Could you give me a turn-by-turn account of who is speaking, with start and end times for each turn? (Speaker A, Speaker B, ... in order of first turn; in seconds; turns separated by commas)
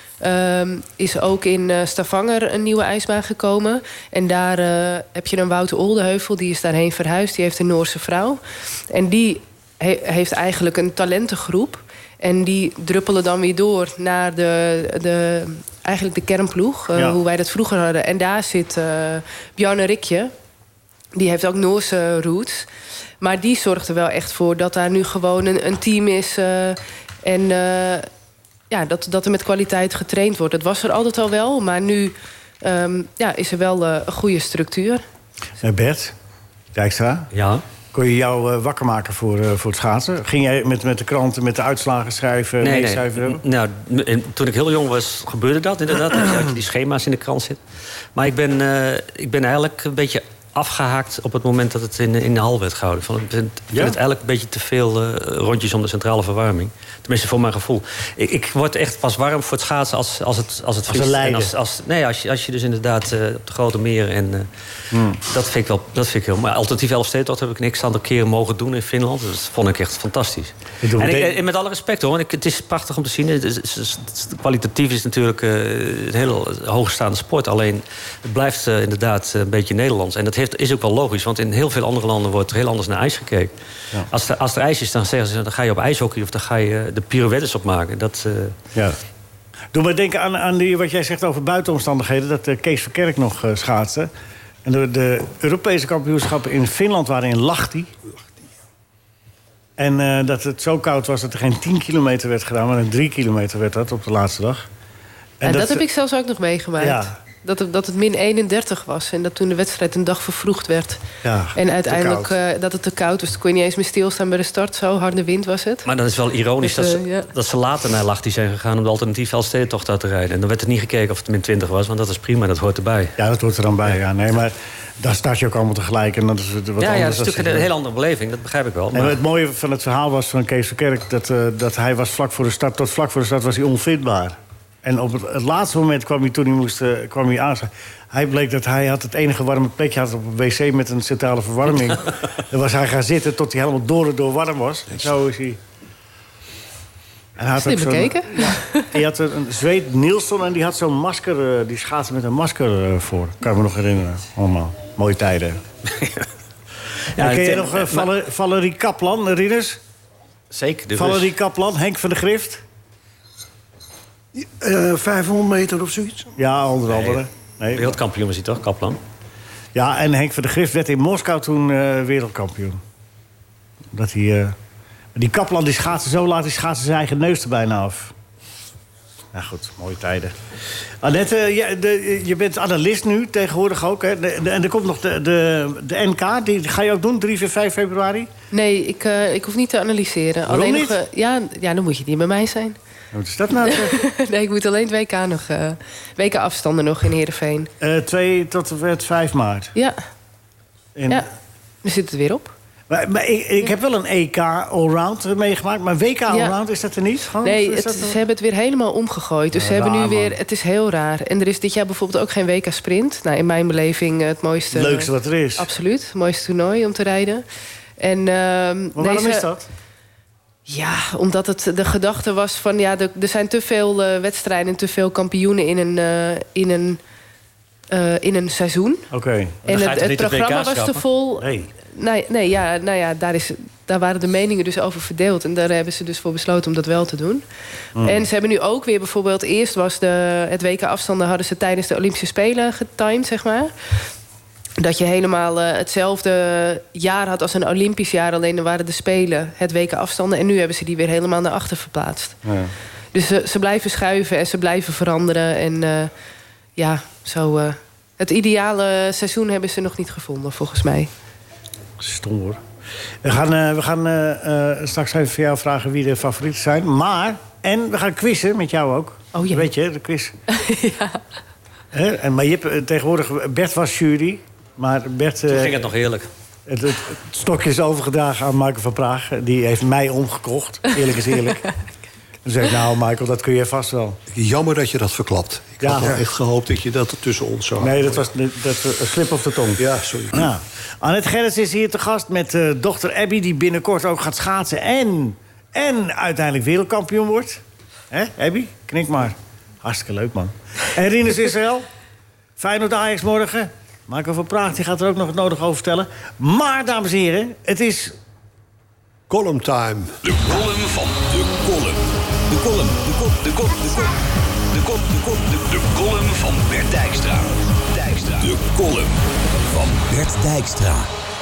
Speaker A: 0.2-8.4, Speaker A: 8.9-20.3, Speaker A: 21.1-22.7, Speaker A: 23.2-28.1, Speaker A: 28.7-35.0, Speaker B: 35.6-36.1, Speaker B: 36.7-37.3, Speaker C: 37.3-37.6, Speaker B: 37.9-43.4, Speaker C: 42.6-47.6, Speaker C: 48.1-64.5, Speaker B: 60.9-61.5, Speaker B: 64.9-65.2, Speaker C: 65.2-83.5, Speaker B: 70.8-71.3, Speaker C: 84.1-88.6, Speaker B: 89.7-94.1, Speaker B: 94.6-97.9, Speaker B: 99.8-104.7, Speaker B: 105.4-105.8, Speaker A: 105.4-111.0, Speaker B: 106.8-107.1, Speaker B: 111.2-112.3, Speaker A: 111.5-115.8, Speaker C: 115.8-123.1, Speaker A: 116.6-117.3, Speaker B: 123.2-127.7, Speaker C: 126.8-129.2, Speaker B: 128.9-145.6, Speaker B: 147.4-155.6, Speaker A: 147.6-148.9, Speaker C: 157.2-158.1, Speaker B: 157.2-159.8, Speaker C: 160.5-161.3, Speaker B: 160.9-162.6, Speaker D: 164.3-166.3, Speaker B: 166.4-167.9, Speaker C: 166.9-167.2, Speaker C: 167.7-169.0, Speaker B: 169.7-172.8, Speaker B: 173.9-174.5, Speaker B: 175.1-178.1, Speaker B: 179.3-180.3, Speaker B: 181.0-188.3, Speaker A: 188.5-192.8, Speaker B: 190.5-190.9, Speaker B: 193.1-194.0, Speaker A: 193.6-197.7, Speaker B: 197.8-199.7, Speaker B: 200.9-201.2, Speaker A: 201.8-202.5, Speaker B: 202.9-208.2, Speaker A: 206.3-206.5, Speaker A: 207.4-217.4, Speaker B: 209.5-210.3, Speaker B: 214.7-215.7, Speaker A: 218.0-219.4, Speaker B: 218.9-219.7, Speaker A: 220.7-227.0, Speaker A: 227.9-229.1, Speaker B: 229.1-230.4, Speaker A: 229.7-237.4, Speaker C: 229.7-231.0, Speaker B: 231.4-231.7, Speaker B: 237.9-238.2, Speaker A: 238.0-243.7, Speaker A: 244.8-252.4, Speaker B: 252.4-252.7, Speaker A: 253.1-256.1, Speaker A: 256.8-261.1, Speaker B: 262.0-262.6, Speaker B: 263.2-270.3, Speaker A: 269.3-269.7, Speaker A: 270.5-271.2, Speaker B: 271.9-275.7, Speaker C: 275.5-276.3, Speaker B: 276.7-281.7, Speaker B: 282.4-284.2, Speaker E: 284.3-288.2, Speaker B: 285.8-286.1, Speaker B: 287.8-301.9, Speaker E: 289.8-290.4, Speaker B: 302.6-308.1, Speaker E: 309.3-310.1, Speaker F: 310.2-314.2, Speaker F: 314.7-321.1